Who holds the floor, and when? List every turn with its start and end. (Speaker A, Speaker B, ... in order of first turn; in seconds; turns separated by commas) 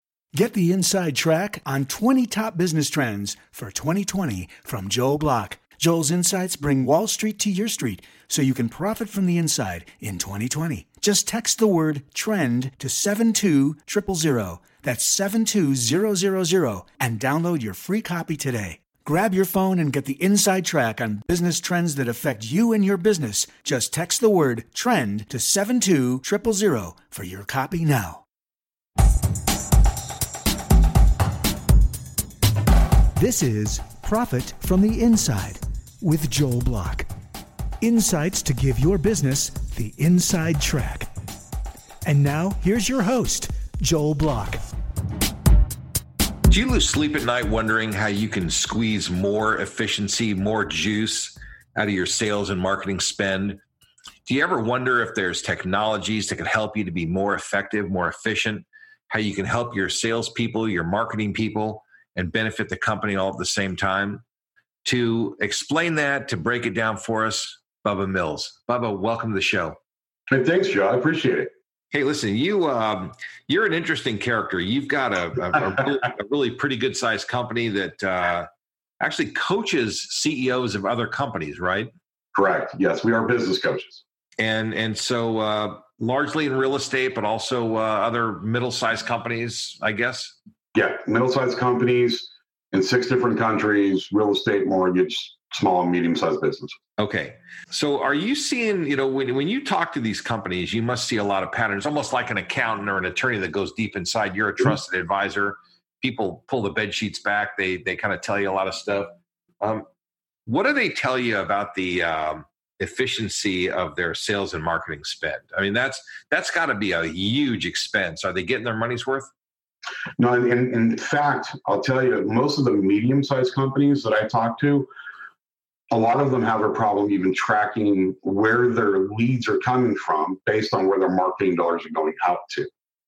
Speaker A: 0.3-28.2, Speaker A: 33.2-37.1, Speaker A: 37.8-41.1, Speaker A: 42.0-44.6, Speaker B: 46.5-53.6, Speaker B: 54.2-64.2, Speaker B: 64.8-69.8, Speaker C: 70.3-71.5, Speaker B: 71.9-78.5, Speaker B: 79.0-81.9, Speaker C: 82.3-84.0, Speaker B: 84.4-90.4, Speaker C: 90.7-96.8, Speaker B: 97.0-109.9, Speaker B: 110.5-119.3, Speaker C: 120.2-124.9, Speaker C: 125.9-132.7